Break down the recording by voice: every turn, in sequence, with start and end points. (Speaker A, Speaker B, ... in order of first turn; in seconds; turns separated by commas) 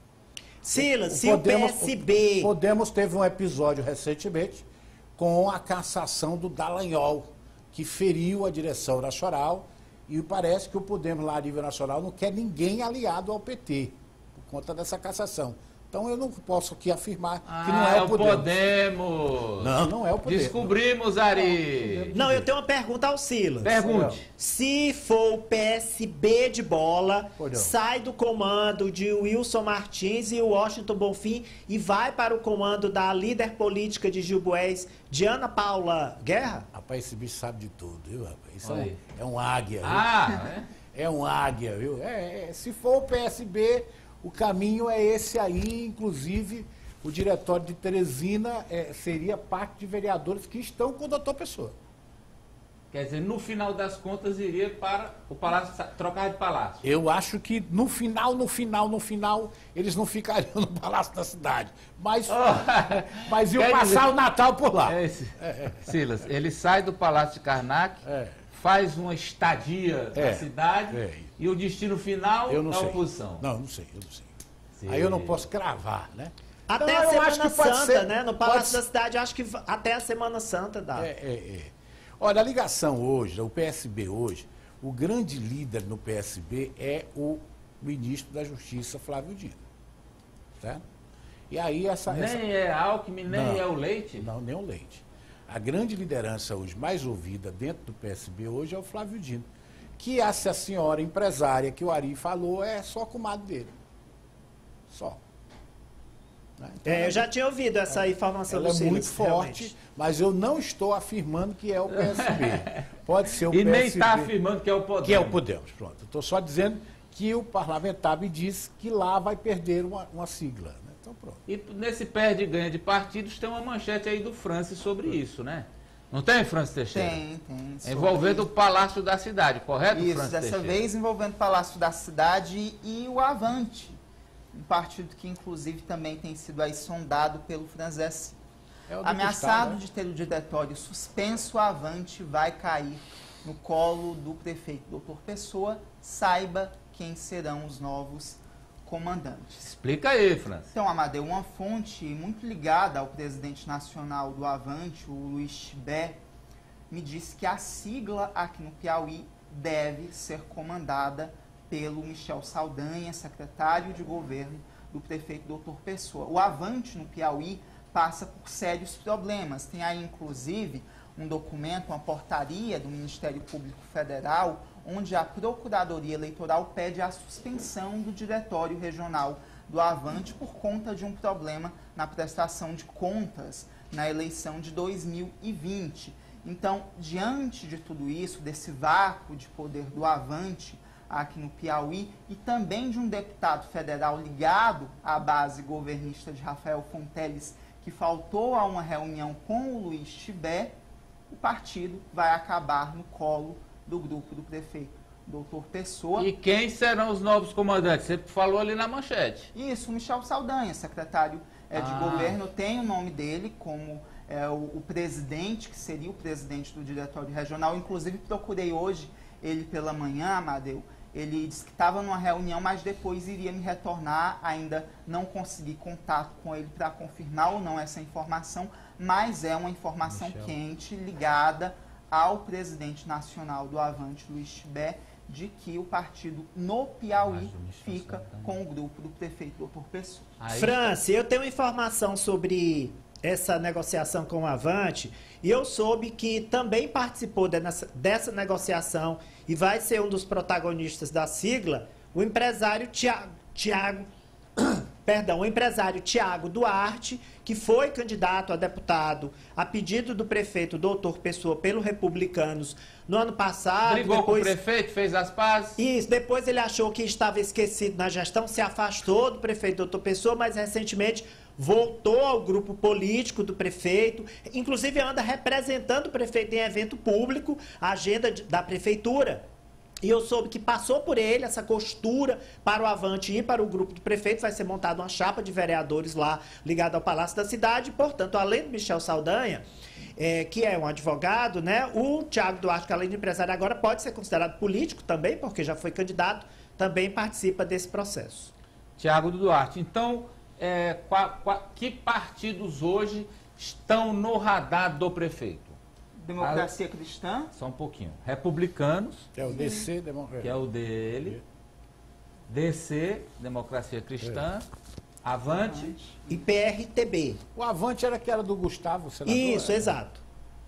Speaker A: 0.6-2.5, Speaker B: 0.7-18.6, Speaker C: 17.4-22.2, Speaker B: 19.6-20.8, Speaker B: 21.3-22.5, Speaker A: 22.1-23.8, Speaker C: 23.6-24.3, Speaker B: 23.8-24.2, Speaker A: 24.3-36.7, Speaker B: 27.4-27.8, Speaker B: 36.7-40.3, Speaker C: 38.6-39.0, Speaker C: 39.8-40.7, Speaker B: 40.9-51.8, Speaker C: 52.9-56.8, Speaker B: 56.8-65.9, Speaker C: 62.3-64.1, Speaker C: 64.8-73.5, Speaker B: 68.0-68.4, Speaker B: 70.1-71.3, Speaker B: 72.5-74.3, Speaker C: 74.8-75.5, Speaker B: 74.9-78.8, Speaker A: 76.7-81.1, Speaker B: 81.0-89.6, Speaker B: 91.5-92.5, Speaker C: 92.1-94.3, Speaker B: 93.2-99.5, Speaker B: 100.0-103.7, Speaker B: 104.9-105.2, Speaker B: 106.6-107.2, Speaker A: 106.8-109.7, Speaker B: 107.9-114.3, Speaker C: 112.0-112.8, Speaker C: 113.5-115.4, Speaker B: 115.0-121.4, Speaker C: 121.5-127.2, Speaker D: 126.9-128.5, Speaker C: 127.8-130.8, Speaker D: 129.9-134.0, Speaker D: 134.5-138.4, Speaker B: 138.9-139.8, Speaker D: 139.0-149.7, Speaker C: 149.6-150.7, Speaker D: 150.7-156.2, Speaker D: 156.9-200.7, Speaker D: 201.3-206.3, Speaker C: 206.2-209.5, Speaker D: 209.5-240.3, Speaker C: 211.7-212.4, Speaker C: 230.0-230.5, Speaker C: 237.2-238.6, Speaker C: 240.4-240.9, Speaker A: 240.5-264.5, Speaker C: 263.9-265.8, Speaker A: 265.8-279.4, Speaker A: 280.0-289.6, Speaker A: 290.2-298.5, Speaker C: 299.0-305.8, Speaker D: 306.1-307.5, Speaker C: 306.4-306.7, Speaker C: 307.5-309.3, Speaker B: 309.3-310.6, Speaker D: 309.4-309.9, Speaker C: 310.4-311.4, Speaker C: 312.5-314.7, Speaker B: 314.2-314.5, Speaker C: 315.2-315.9, Speaker D: 315.5-316.4, Speaker A: 316.3-317.4, Speaker B: 317.5-320.0, Speaker A: 319.2-320.2